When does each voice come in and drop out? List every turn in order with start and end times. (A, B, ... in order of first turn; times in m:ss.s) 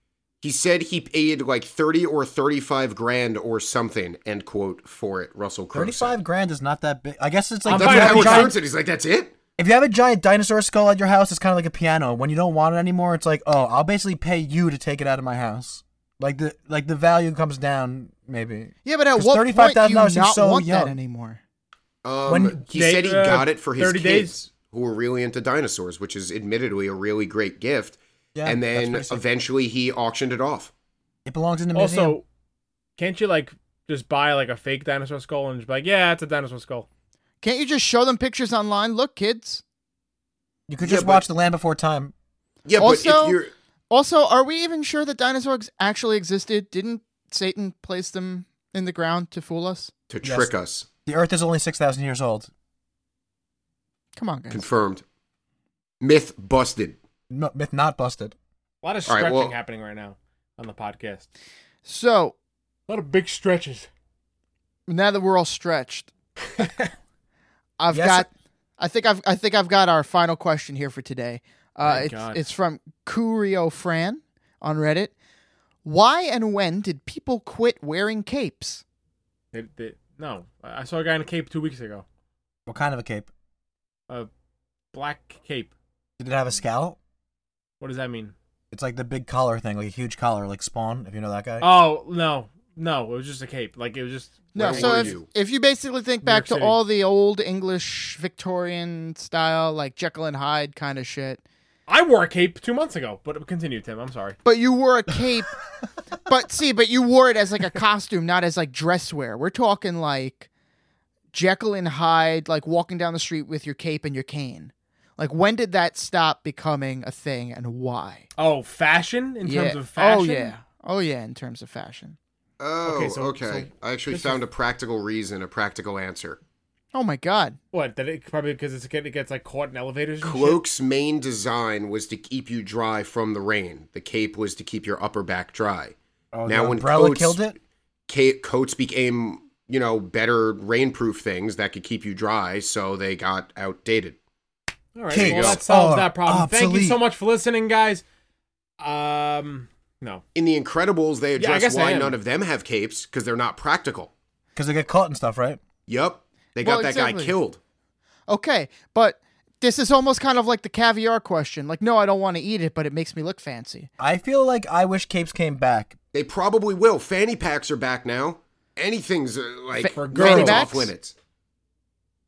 0:00.4-0:06.2 A
0:05.7-0:08.5 B
0:07.6-0:08.6 C
0:07.7-0:09.3 A
0:09.6-0:21.0 B
0:18.8-0:21.4 D
0:22.0-0:30.7 A
0:22.3-0:22.6 B
0:22.7-0:24.4 C
0:28.3-0:29.2 B
0:31.2-0:32.2 B
0:31.7-0:32.2 C
0:33.0-0:36.8 C
0:37.4-0:39.6 D
0:40.7-0:42.1 B
0:40.8-0:41.2 A
0:42.6-0:43.5 A
0:42.8-0:49.9 D
0:50.1-0:50.9 A
0:50.2-0:50.5 B
0:51.0-0:52.5 B
0:54.2-0:54.6 D
0:54.5-0:55.0 A
0:56.0-0:57.0 A
0:57.3-0:58.3 B
0:58.8-1:01.3 C
0:59.1-0:59.5 A
1:01.8-1:02.4 D
1:02.9-1:03.9 C
1:04.9-1:06.1 D
1:06.6-1:06.9 C
1:07.8-1:08.3 D
1:07.9-1:08.3 B
1:08.8-1:15.1 D
1:11.8-1:12.4 C
1:15.8-1:18.8 D
1:19.5-1:22.0 C
1:22.7-1:23.3 B
1:24.9-1:25.7 C
1:26.2-1:27.0 B
1:27.8-1:28.3 C
1:28.7-1:31.7 B
1:31.6-1:35.2 C
1:34.5-1:41.4 D
1:34.6-1:35.3 A
1:36.2-1:36.8 C
1:41.9-1:44.4 C
1:44.4-1:45.5 D
1:46.2-1:50.5 D
1:51.3-1:58.2 D
1:58.4-2:00.5 C
1:59.4-2:02.2 D
2:02.6-2:06.4 A
2:02.8-2:04.4 C
2:06.9-2:07.6 D
2:07.7-2:10.6 C
2:10.2-2:17.4 A
2:16.3-2:17.5 B
2:18.1-2:24.2 A
2:24.9-2:28.0 C
2:25.1-2:27.0 B
2:25.2-2:25.6 A
2:28.8-2:30.2 C
2:30.3-2:34.1 A
2:31.4-2:32.2 C
2:34.6-2:35.6 B
2:35.9-2:37.6 A
2:36.6-2:37.4 D
2:38.3-2:43.9 D
2:44.0-2:46.0 B
2:46.1-2:51.1 A
2:49.8-2:50.9 D
2:49.9-2:50.7 C